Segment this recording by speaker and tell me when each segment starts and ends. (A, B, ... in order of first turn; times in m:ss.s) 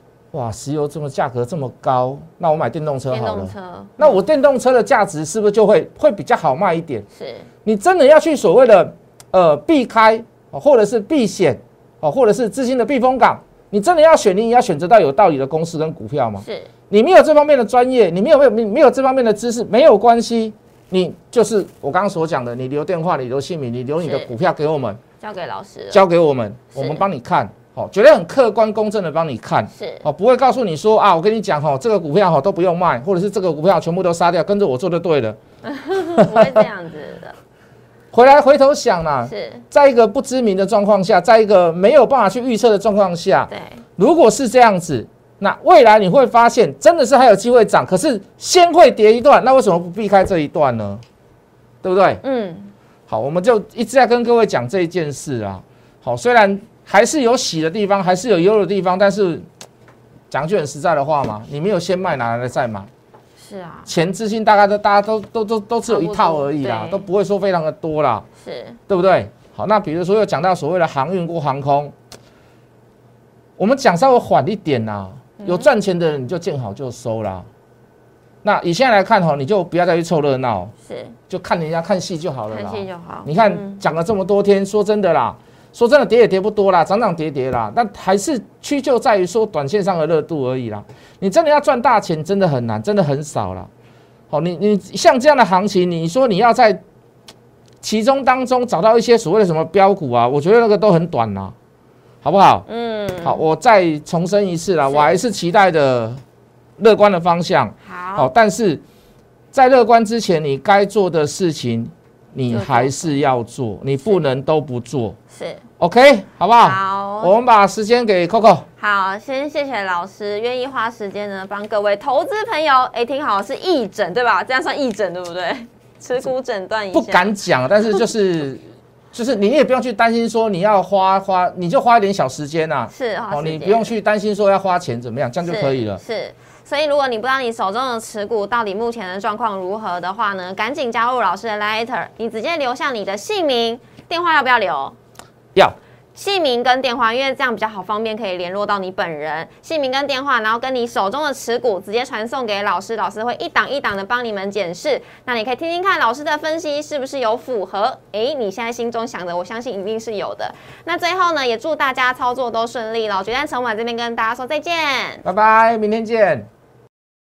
0:00.3-0:07.0 A
0:03.1-0:04.2 B
0:07.1-0:07.5 B
0:07.6-0:25.0 A
0:16.4-0:16.7 B
0:24.0-0:24.3 B
0:25.2-0:26.0 B
0:25.9-0:35.4 A
0:26.7-0:27.0 B
0:29.7-0:30.0 B
0:35.6-0:37.4 B
0:36.2-0:36.6 A
0:38.1-0:51.0 A
0:39.2-0:39.6 B
0:43.5-0:43.8 B
0:51.8-0:52.2 A
0:52.2-0:52.7 B
0:53.1-0:59.4 A
1:00.3-1:02.9 A
1:03.4-1:03.9 B
1:03.8-1:08.2 A
1:05.9-1:07.0 B
1:08.4-1:08.8 B
1:08.9-1:11.9 A
1:13.6-1:17.5 A
1:15.4-1:15.7 B
1:18.4-1:20.7 A
1:20.8-1:21.1 B
1:21.3-1:33.7 A
1:22.5-1:23.8 B
1:34.3-1:36.8 A
1:37.8-1:41.5 A
1:42.2-1:42.6 A
1:42.7-1:43.4 B
1:43.2-1:46.2 A
1:44.9-1:45.1 B
1:46.8-1:48.8 A
1:47.8-1:48.3 B
1:49.5-1:55.2 A
1:52.5-1:53.2 B
1:55.3-1:55.6 B
1:55.8-1:58.6 A
1:56.6-1:57.3 B
1:58.8-2:07.3 B
2:06.9-2:16.0 A
2:12.9-2:13.9 B
2:15.4-2:24.9 B
2:26.1-2:45.2 B
2:45.2-2:46.5 A